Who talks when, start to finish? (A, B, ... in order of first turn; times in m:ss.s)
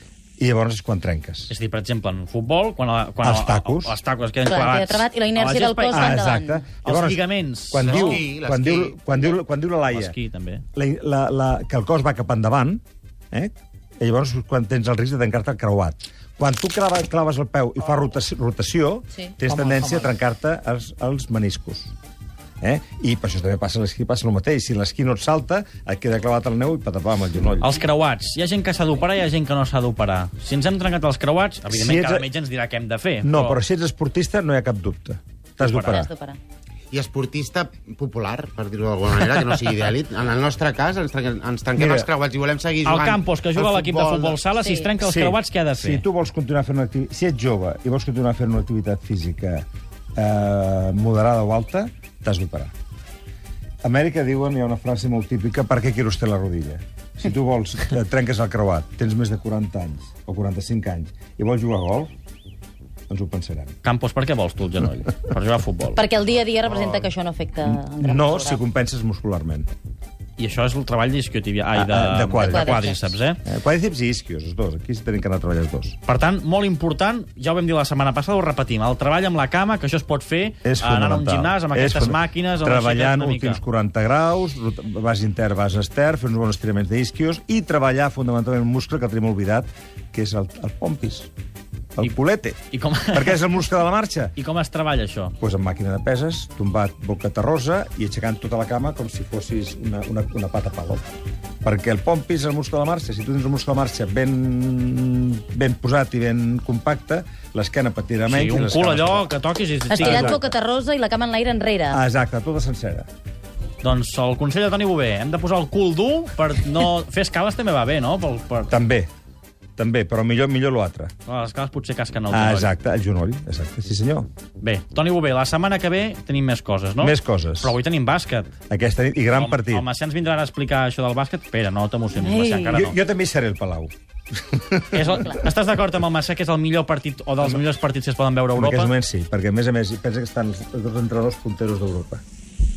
0:00.4-0:01.5 A
0:01.5-0:06.2 B
0:03.2-0:04.0 A
0:04.4-0:06.6 C
0:05.9-0:10.2 A
0:06.8-0:08.2 B
0:07.8-0:09.0 D
0:09.9-0:10.6 B
0:10.7-0:21.9 A
0:22.6-0:27.8 A
0:27.6-0:33.6 B
0:31.7-0:32.3 A
0:33.2-0:36.1 A
0:35.6-0:36.0 B
0:35.8-0:36.4 C
0:36.9-0:44.4 D
0:41.8-0:42.1 A
0:42.8-0:46.0 B
0:44.6-0:44.9 C
0:45.0-0:52.7 A
0:53.8-1:02.1 A
1:03.1-1:03.8 A
1:03.8-1:06.0 B
1:06.0-1:08.6 C
1:06.8-1:07.0 A
1:08.0-1:09.7 A
1:10.4-1:13.4 B
1:11.7-1:12.9 A
1:12.4-1:13.1 C
1:13.4-1:16.0 A
1:16.0-1:23.6 B
1:20.6-1:31.3 A
1:32.0-1:32.6 A
1:32.7-1:33.5 B
1:33.1-1:34.4 A
1:34.4-1:35.3 B
1:35.4-1:41.1 A
1:41.6-1:49.3 A
1:48.2-1:50.4 B
1:49.9-1:52.0 C
1:50.0-1:50.4 A
1:51.9-1:53.1 A
1:53.8-1:58.7 B
1:58.7-1:59.1 A
1:59.8-2:01.1 A
2:01.2-2:02.7 B
2:02.3-2:04.3 A
2:04.6-2:08.5 B
2:07.0-2:07.8 A
2:08.7-2:09.8 A
2:09.3-2:13.0 B
2:12.2-2:12.7 C
2:12.6-2:15.3 A
2:14.9-2:18.9 B
2:15.1-2:15.4 C
2:18.6-2:22.2 A